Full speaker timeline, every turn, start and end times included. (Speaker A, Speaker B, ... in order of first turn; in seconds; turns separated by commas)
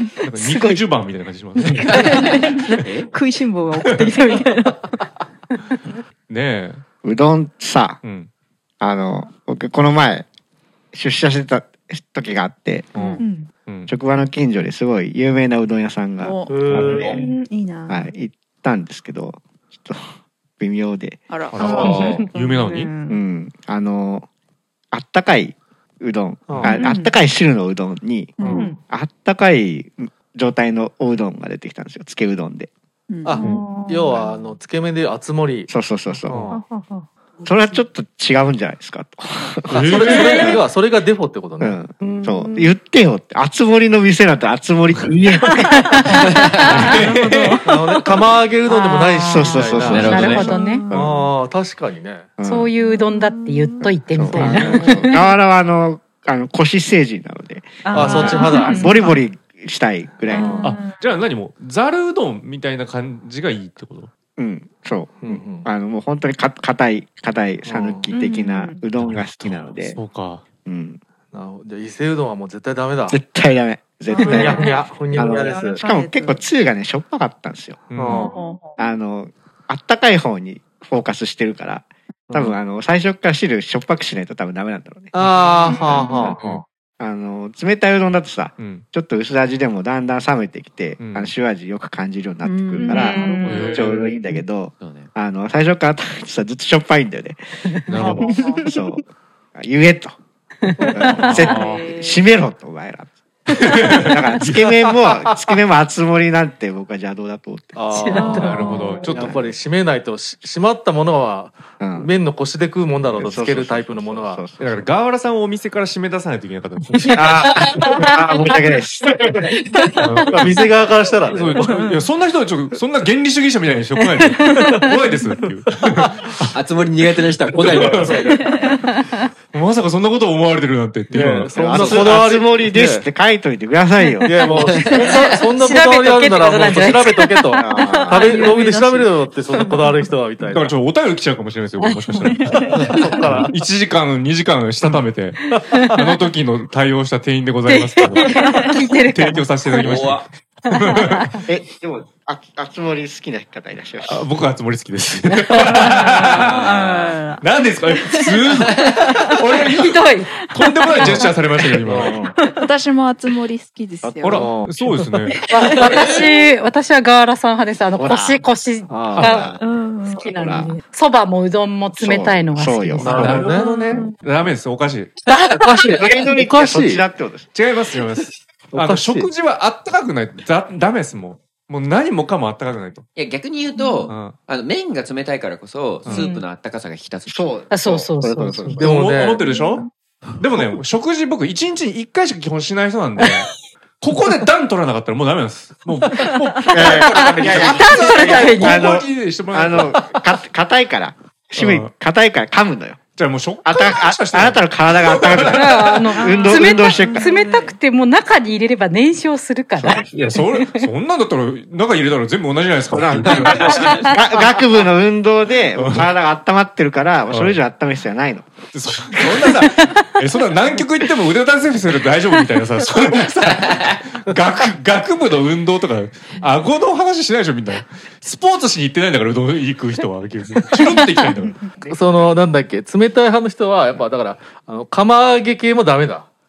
Speaker A: 0.2-2.1, Speaker B: 0.3-0.8, Speaker B: 1.7-5.0, Speaker C: 1.8-3.1, Speaker A: 3.8-4.2, Speaker A: 6.3-6.8, Speaker D: 7.0-8.0, Speaker A: 8.0-8.3, Speaker D: 8.8-10.2, Speaker D: 10.9-12.9, Speaker A: 12.9-13.9, Speaker E: 12.9-13.2, Speaker B: 13.2-13.5, Speaker D: 13.9-17.3, Speaker E: 16.2-16.7, Speaker F: 16.5-17.2, Speaker B: 16.7-18.1, Speaker D: 17.9-20.0, Speaker D: 20.6-22.0, Speaker E: 21.3-22.1, Speaker A: 21.5-22.9, Speaker B: 21.6-23.2, Speaker C: 21.9-22.2, Speaker D: 23.1-24.2, Speaker D: 24.9-32.7, Speaker F: 26.5-26.8, Speaker B: 26.6-27.1, Speaker E: 28.4-28.7, Speaker F: 28.4-28.7, Speaker B: 28.4-28.8, Speaker E: 33.1-33.6, Speaker F: 33.2-35.7, Speaker B: 33.3-34.3, Speaker D: 34.1-34.4, Speaker D: 35.7-36.5, Speaker F: 36.3-36.6, Speaker B: 36.5-37.1, Speaker D: 37.4-40.6, Speaker F: 39.7-41.8, Speaker A: 39.7-40.6, Speaker D: 41.6-46.0, Speaker G: 42.0-42.3, Speaker B: 42.3-42.7, Speaker B: 45.5-45.9, Speaker G: 45.9-46.2, Speaker C: 46.4-46.9, Speaker B: 46.6-48.2, Speaker A: 46.6-47.6, Speaker F: 47.6-50.0, Speaker G: 48.6-50.8, Speaker D: 49.2-51.3, Speaker B: 49.6-51.1, Speaker C: 49.8-50.5, Speaker F: 50.9-52.3, Speaker D: 52.4-52.7, Speaker G: 52.4-55.2, Speaker B: 52.8-53.8, Speaker D: 53.8-60.8, Speaker B: 54.3-55.1, Speaker A: 54.4-54.9, Speaker B: 57.8-59.2, Speaker F: 57.9-58.9, Speaker A: 58.0-58.4, Speaker F: 60.3-60.6, Speaker B: 60.3-61.1, Speaker A: 60.6-64.1, Speaker D: 64.4-70.0, Speaker F: 65.2-65.7, Speaker F: 67.6-68.1, Speaker B: 68.1-68.8, Speaker A: 69.0-70.4, Speaker D: 70.6-71.0, Speaker F: 71.3-73.2, Speaker D: 73.1-77.8, Speaker F: 74.2-75.8, Speaker B: 74.2-75.3, Speaker A: 77.9-78.3, Speaker F: 77.9-78.3, Speaker B: 78.2-78.5, Speaker D: 78.8-97.4, Speaker F: 82.3-82.6, Speaker F: 85.1-86.6, Speaker A: 88.6-88.8, Speaker A: 91.0-91.3, Speaker E: 92.4-93.6, Speaker B: 92.8-93.7, Speaker A: 93.5-93.9, Speaker C: 94.8-95.1, Speaker A: 97.9-98.3, Speaker D: 97.9-99.0, Speaker B: 98.0-98.7, Speaker E: 98.2-98.6, Speaker D: 99.5-100.2, Speaker F: 100.8-101.5, Speaker D: 100.9-108.5, Speaker E: 101.5-102.2, Speaker A: 103.5-104.8, Speaker F: 107.7-114.5, Speaker G: 107.9-109.0, Speaker E: 108.1-108.6, Speaker A: 108.3-109.4, Speaker B: 108.6-109.0, Speaker D: 109.0-109.5, Speaker D: 111.8-112.1, Speaker A: 113.0-113.6, Speaker D: 113.2-114.8, Speaker A: 114.6-117.6, Speaker D: 117.2-119.4, Speaker A: 120.0-120.7, Speaker F: 120.3-121.7, Speaker A: 121.2-126.5, Speaker F: 124.4-125.0, Speaker F: 125.7-126.3, Speaker C: 126.5-128.4, Speaker A: 127.2-128.3, Speaker F: 127.7-128.4, Speaker A: 129.5-132.1, Speaker F: 131.1-133.1, Speaker D: 131.5-134.6, Speaker F: 134.2-140.8, Speaker C: 134.5-135.3, Speaker G: 135.1-139.1, Speaker D: 137.6-138.4, Speaker A: 140.4-142.7, Speaker G: 141.8-143.0, Speaker F: 142.6-143.5, Speaker A: 143.3-145.4, Speaker F: 144.8-146.2, Speaker A: 145.9-148.3, Speaker G: 147.7-149.9, Speaker B: 148.2-148.7, Speaker A: 149.1-151.4, Speaker C: 149.8-150.2, Speaker G: 150.8-151.4, Speaker D: 151.5-154.2, Speaker A: 154.0-156.6, Speaker B: 155.7-158.2, Speaker C: 156.3-157.2, Speaker A: 157.4-158.8, Speaker C: 158.6-159.1, Speaker B: 159.0-159.6, Speaker A: 159.4-162.2, Speaker G: 159.7-161.3, Speaker F: 161.8-162.3, Speaker B: 162.3-162.6, Speaker E: 162.5-164.6, Speaker D: 164.0-164.5, Speaker A: 164.2-165.4, Speaker F: 164.4-165.2, Speaker G: 165.4-173.3, Speaker C: 165.7-166.2, Speaker D: 167.9-168.4, Speaker F: 168.9-169.3, Speaker D: 169.1-170.7, Speaker A: 169.2-169.5, Speaker B: 169.5-170.2, Speaker D: 172.0-173.4, Speaker F: 173.0-173.7, Speaker A: 173.1-175.2, Speaker B: 173.2-174.2, Speaker F: 175.5-177.0, Speaker D: 175.8-177.5, Speaker A: 177.5-183.0, Speaker F: 178.7-179.3, Speaker C: 183.2-187.6, Speaker A: 184.1-184.4, Speaker A: 186.0-186.3, Speaker G: 186.1-186.4, Speaker D: 187.3-188.9, Speaker G: 187.7-188.8, Speaker F: 188.7-189.4, Speaker A: 188.8-189.8, Speaker B: 189.5-189.8, Speaker A: 190.4-193.5, Speaker A: 194.0-200.1, Speaker D: 196.6-203.0, Speaker G: 196.9-198.9, Speaker A: 201.6-201.9, Speaker A: 203.1-206.2, Speaker D: 203.6-207.3, Speaker G: 205.4-210.9, Speaker B: 206.2-207.8, Speaker D: 209.8-210.0, Speaker A: 210.1-214.1, Speaker D: 212.9-218.5, Speaker A: 215.7-216.1, Speaker A: 217.3-217.6, Speaker A: 218.7-232.1, Speaker D: 219.2-219.6, Speaker F: 230.5-230.8, Speaker F: 231.8-236.3